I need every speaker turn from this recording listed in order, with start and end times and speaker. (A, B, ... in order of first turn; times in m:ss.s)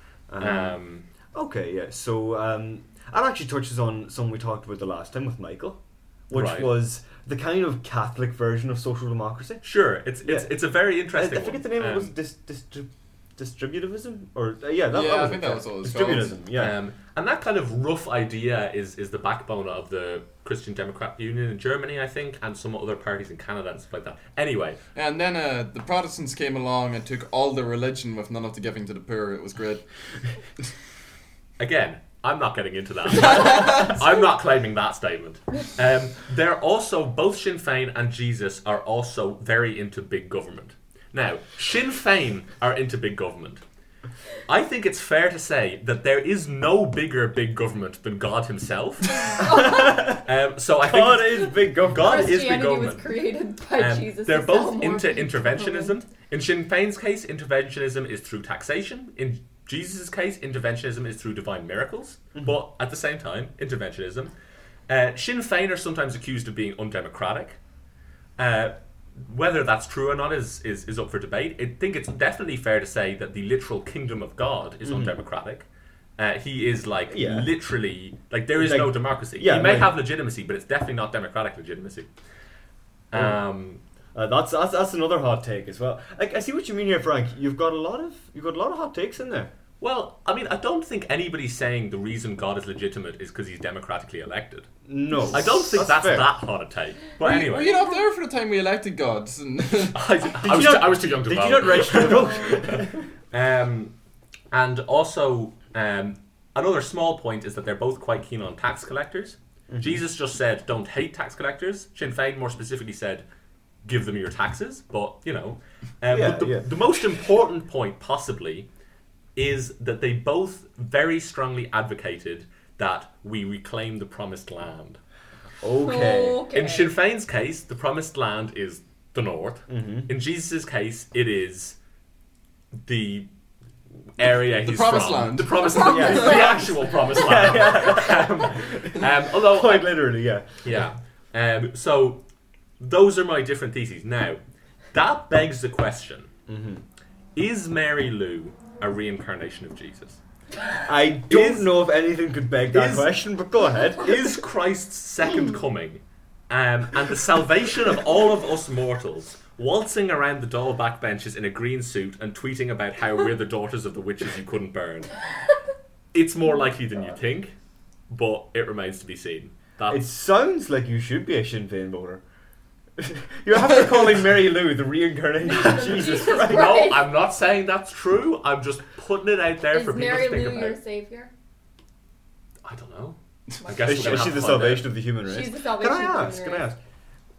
0:00.3-0:00.8 A
0:00.4-0:01.0 B
0:01.3-0:09.6 A
0:06.3-0:06.7 B
0:09.6-0:12.1 B
0:10.2-0:10.5 A
0:11.1-0:16.8 A
0:14.9-0:16.4 C
0:16.5-0:24.8 B
0:24.9-0:29.8 C
0:31.6-0:43.6 B
0:44.5-0:53.1 B
0:49.2-0:50.0 D
0:49.4-0:50.2 A
0:50.8-0:52.4 A
0:52.0-0:56.0 D
0:53.8-1:04.3 B
1:04.9-1:07.6 B
1:08.4-1:22.1 B
1:14.8-1:15.1 A
1:17.1-1:17.5 A
1:18.6-1:20.0 A
1:23.1-1:23.8 B
1:24.1-1:29.5 A
1:29.8-1:34.7 B
1:34.9-1:36.3 A
1:35.3-1:37.7 B
1:37.2-1:40.0 C
1:39.9-1:43.9 B
1:40.4-1:43.0 A
1:44.5-1:53.2 B
1:49.7-1:50.0 A
1:53.8-1:58.7 B
1:56.1-1:56.7 A
1:59.4-2:05.0 B
2:05.6-2:06.5 A
2:05.8-2:06.9 D
2:06.5-2:11.8 B
2:09.7-2:10.1 A
2:12.8-2:13.3 B
2:14.2-2:19.9 B
2:14.6-2:16.5 C
2:15.8-2:20.6 A
2:16.0-2:16.6 D
2:20.6-2:22.2 B
2:22.8-2:24.4 B
2:24.9-2:26.3 B
2:26.5-2:26.8 A
2:27.4-2:30.2 B
2:30.8-2:34.4 A
2:31.2-2:31.7 B
2:32.7-2:33.1 B
2:34.0-2:45.1 B
2:46.1-2:47.5 B
2:48.1-2:50.0 B
2:49.9-2:52.2 A
2:53.0-2:57.0 A
2:55.4-2:57.1 D
2:56.2-3:00.8 B
2:59.7-3:01.3 D
3:02.6-3:04.9 B
3:03.8-3:06.8 A
3:05.2-3:06.7 D